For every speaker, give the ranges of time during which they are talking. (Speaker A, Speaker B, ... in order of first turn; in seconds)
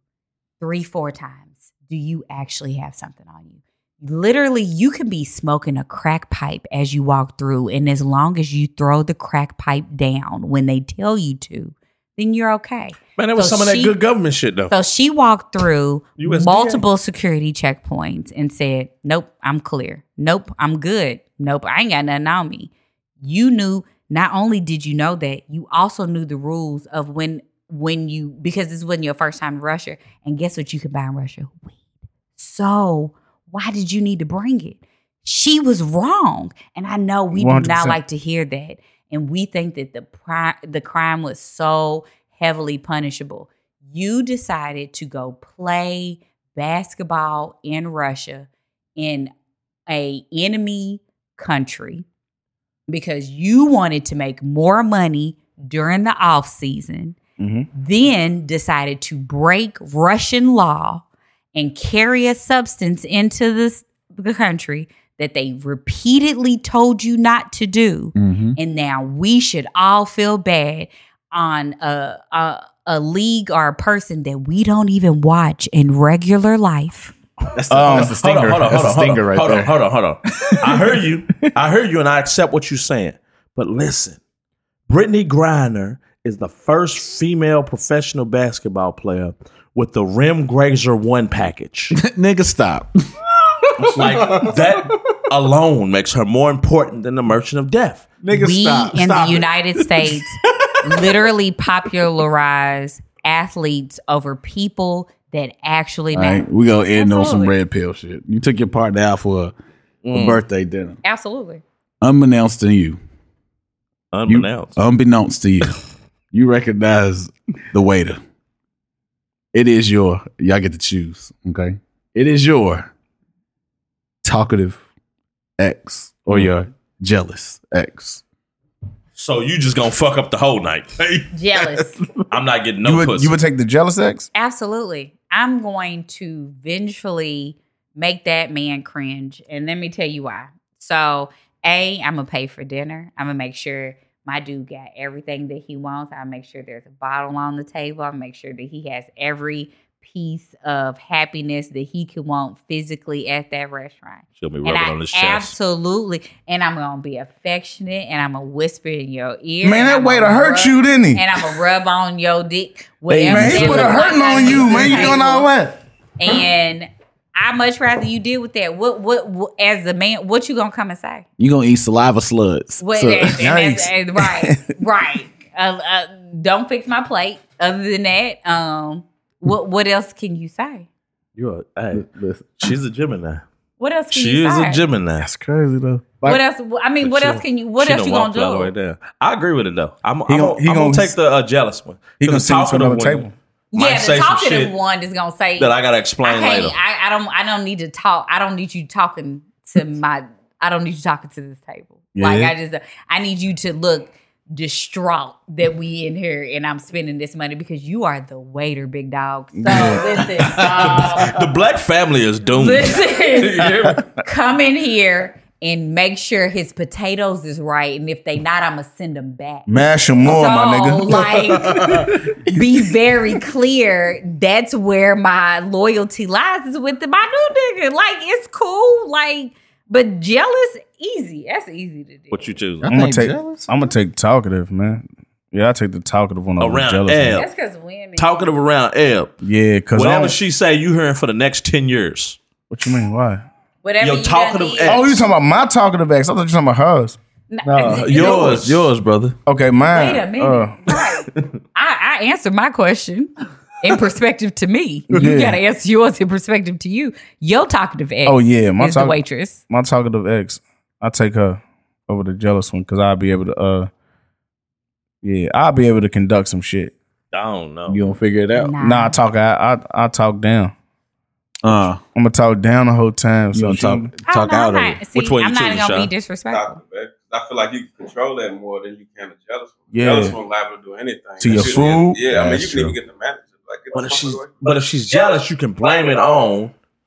Speaker A: 0.6-13.9, 14.7-22.7, 23.2-31.8, 32.4-49.3, 49.9-52.0, 52.9-57.2, 57.7-77.1, 98.3-107.6, 111.0-111.6, 131.3-132.0, 134.3-165.5, 166.2-171.2, 172.8-180.9, 183.8-184.8, 186.2-188.7, 193.7-195.7, 196.2-211.4, 212.5-219.7, 220.2-232.6, 237.3-238.4, 243.8-245.1, 247.5-248.7, 249.9-259.6, 268.5-269.2, 274.2-276.8
Speaker B: 13.2-14.7, 16.2-16.8, 77.9-84.2, 84.9-92.0, 93.8-98.1, 110.0-110.4, 114.1-114.8, 129.2-131.3, 132.3-133.4, 154.4-155.5, 181.3-182.1, 182.6-183.4, 184.1-185.3, 187.0-194.7, 195.6-196.8, 210.4-214.0, 232.3-232.9, 236.6-237.5, 238.2-239.3, 239.9-242.4, 244.0-245.2, 247.8-248.8, 267.3-268.0, 275.1-276.1, 281.5-282.0, 283.9-286.7
Speaker C: 37.3-38.0, 57.4-57.7, 77.7-78.7, 132.8-134.3, 159.6-161.2, 163.1-165.8, 173.4-174.6, 185.2-186.2, 190.3-191.1, 192.2-193.3, 202.1-202.5, 209.6-210.2, 219.7-222.1, 232.9-237.4, 239.4-240.3, 242.7-243.4, 244.8-247.2, 249.4-250.9, 255.1-255.6, 258.2-263.9, 265.2-266.9, 268.8-270.7, 272.1-274.1, 279.9-280.4, 281.4-282.9
Speaker D: 68.1-68.6, 77.5-79.8, 80.5-80.8, 91.9-93.1, 93.7-94.8, 98.2-100.2, 106.1-109.5, 110.1-111.0, 112.0-113.0, 114.3-115.7, 116.3-118.2, 119.5-122.9, 124.2-124.8, 125.6-128.2, 163.3-164.0, 171.4-173.5, 181.9-182.7, 210.4-211.0, 232.8-233.7, 247.6-249.4, 267.9-268.7, 271.6-272.0, 273.5-275.0
Speaker E: 276.5-286.5